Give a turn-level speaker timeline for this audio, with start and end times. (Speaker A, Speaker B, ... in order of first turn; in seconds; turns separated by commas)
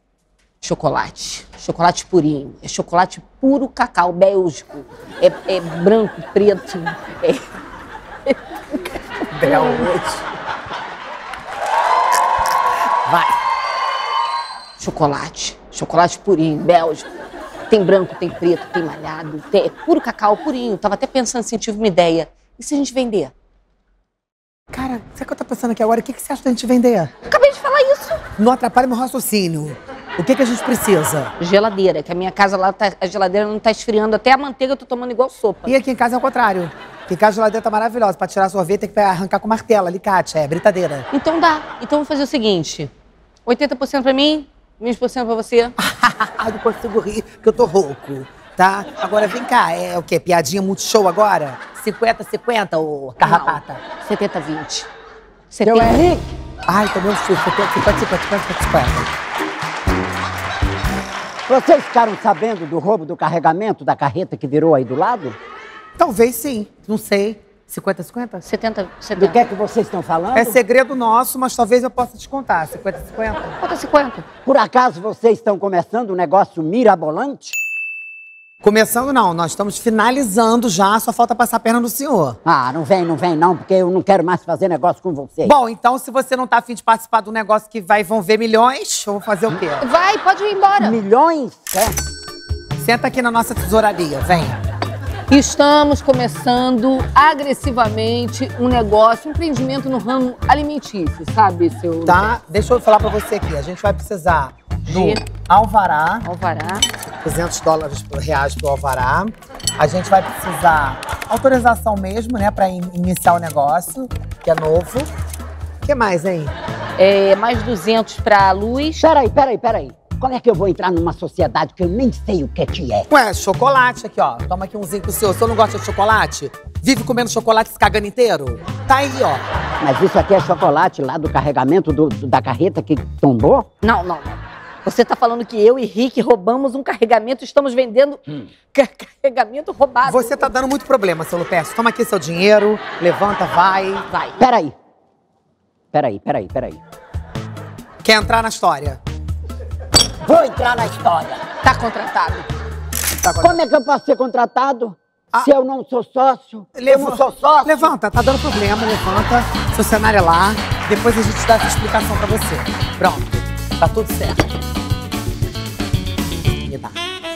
Speaker A: 0.6-7.5, Speaker A: 8.3-8.8, Speaker B: 9.3-10.2, Speaker A: 9.4-9.9, Speaker A: 14.8-17.1, Speaker A: 17.7-23.3, Speaker B: 24.7-27.1, Speaker A: 27.3-28.2, Speaker B: 28.4-31.3, Speaker A: 31.4-35.7, Speaker B: 35.7-41.1, Speaker A: 41.1-42.9, Speaker A: 43.5-45.7, Speaker B: 45.8-53.8, Speaker A: 53.2-54.9, Speaker A: 55.5-56.1, Speaker C: 55.7-56.2, Speaker B: 56.7-59.0, Speaker C: 61.5-65.4, Speaker B: 66.0-68.4, Speaker A: 68.5-69.4, Speaker C: 69.2-70.6, Speaker B: 70.3-73.6, Speaker A: 73.6-74.3, Speaker C: 74.5-77.6, Speaker B: 78.6-82.4, Speaker C: 82.5-85.5, Speaker B: 85.5-89.9, Speaker A: 89.8-91.0, Speaker C: 90.8-92.0, Speaker B: 92.8-94.6, Speaker A: 95.3-102.2, Speaker B: 102.0-106.3, Speaker A: 104.9-105.2, Speaker A: 106.2-106.9, Speaker B: 107.2-115.1, Speaker B: 115.8-116.5, Speaker A: 117.0-119.0, Speaker C: 119.0-123.1, Speaker B: 123.1-129.4, Speaker C: 129.8-133.7, Speaker A: 133.8-140.5, Speaker B: 140.0-144.1, Speaker A: 144.1-144.4, Speaker C: 144.4-144.8, Speaker C: 145.9-146.8, Speaker B: 148.0-149.0, Speaker C: 150.2-151.4, Speaker A: 151.6-152.5, Speaker B: 153.2-153.6, Speaker C: 153.4-157.9, Speaker B: 156.8-164.5, Speaker B: 166.7-167.0